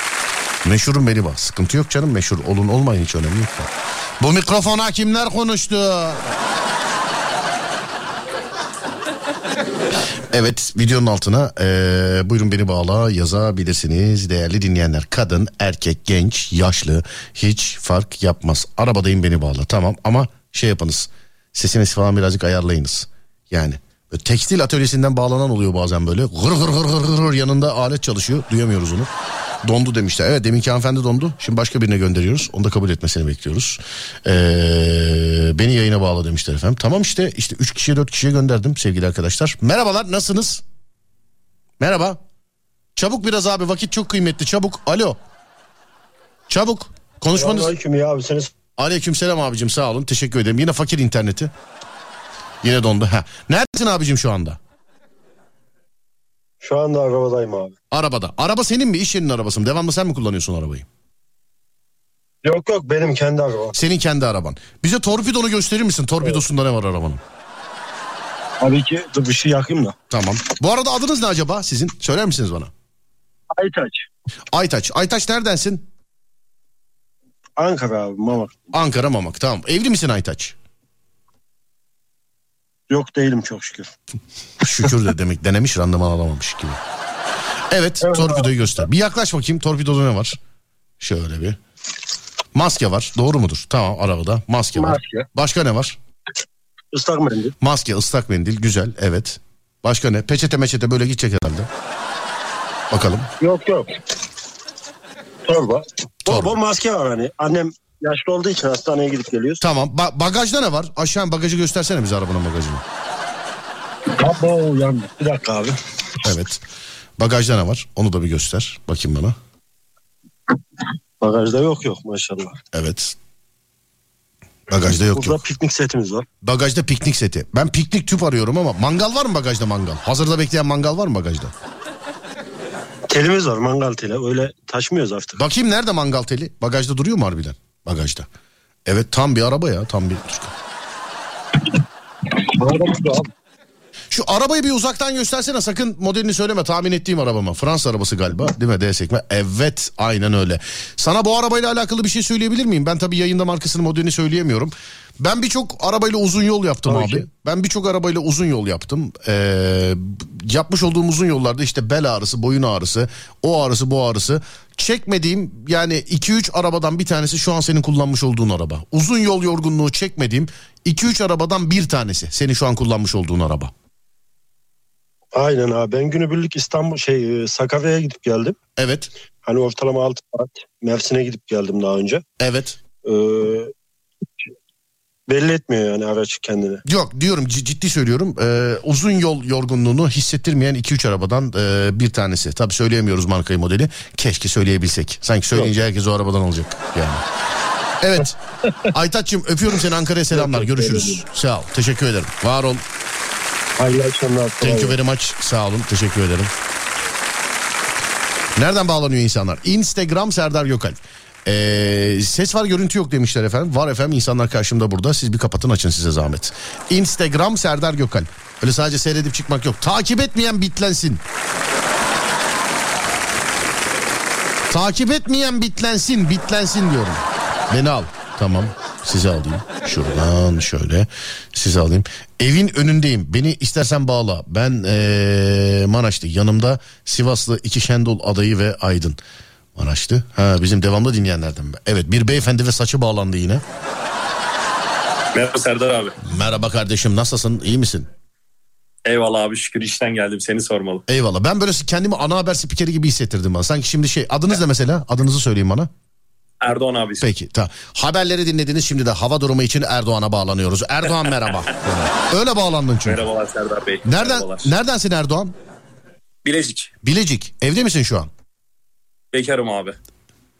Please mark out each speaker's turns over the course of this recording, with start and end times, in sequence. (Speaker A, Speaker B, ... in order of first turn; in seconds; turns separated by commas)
Speaker A: 0.6-6.2, Speaker A: 10.3-29.1, Speaker A: 29.6-40.6, Speaker A: 41.8-42.2, Speaker A: 43.0-45.2, Speaker A: 46.5-47.8, Speaker B: 47.3-48.5, Speaker A: 48.8-51.5, Speaker A: 52.6-54.6, Speaker B: 56.6-57.7, Speaker A: 57.9-60.9, Speaker B: 62.4-63.8, Speaker A: 63.7-67.2, Speaker B: 68.6-70.0, Speaker A: 70.1-72.7, Speaker B: 73.5-74.0, Speaker A: 74.5-75.9, Speaker B: 77.6-78.5, Speaker A: 78.7-80.6, Speaker B: 82.9-83.9, Speaker A: 84.6-86.8, Speaker A: 87.7-90.4, Speaker B: 88.0-88.5, Speaker A: 91.0-91.6, Speaker A: 92.5-96.0, Speaker B: 94.7-95.3, Speaker B: 96.9-97.5, Speaker A: 97.6-101.7, Speaker A: 102.9-103.3, Speaker B: 103.4-103.9, Speaker B: 105.5-109.6, Speaker A: 106.3-106.5, Speaker A: 109.6-112.8, Speaker B: 114.2-115.8, Speaker A: 116.2-116.6, Speaker A: 117.2-119.4, Speaker B: 121.2-122.6, Speaker A: 122.7-123.2, Speaker A: 124.7-125.4, Speaker B: 125.1-126.3, Speaker A: 126.4-131.5, Speaker B: 133.1-135.4, Speaker A: 135.4-138.3, Speaker A: 138.9-140.5, Speaker B: 142.5-143.3, Speaker A: 144.1-173.7, Speaker B: 156.9-157.2, Speaker B: 175.3-178.6, Speaker A: 178.8-179.1, Speaker B: 179.4-182.2, Speaker A: 182.4-182.8, Speaker B: 183.0-183.7, Speaker B: 185.3-186.8, Speaker A: 186.9-197.2, Speaker A: 198.0-198.4, Speaker A: 198.9-202.8, Speaker B: 200.3-201.2, Speaker B: 203.8-205.0, Speaker A: 204.6-206.5, Speaker A: 208.6-221.2, Speaker A: 224.7-239.2, Speaker A: 239.8-243.6, Speaker C: 245.3-246.1, Speaker A: 246.2-248.1, Speaker C: 249.1-251.0, Speaker A: 251.1-255.9, Speaker C: 256.6-257.3, Speaker A: 257.2-263.2, Speaker C: 261.1-261.6, Speaker C: 263.1-264.7, Speaker A: 264.1-265.6, Speaker C: 266.4-266.9, Speaker A: 267.0-268.3, Speaker C: 269.3-269.9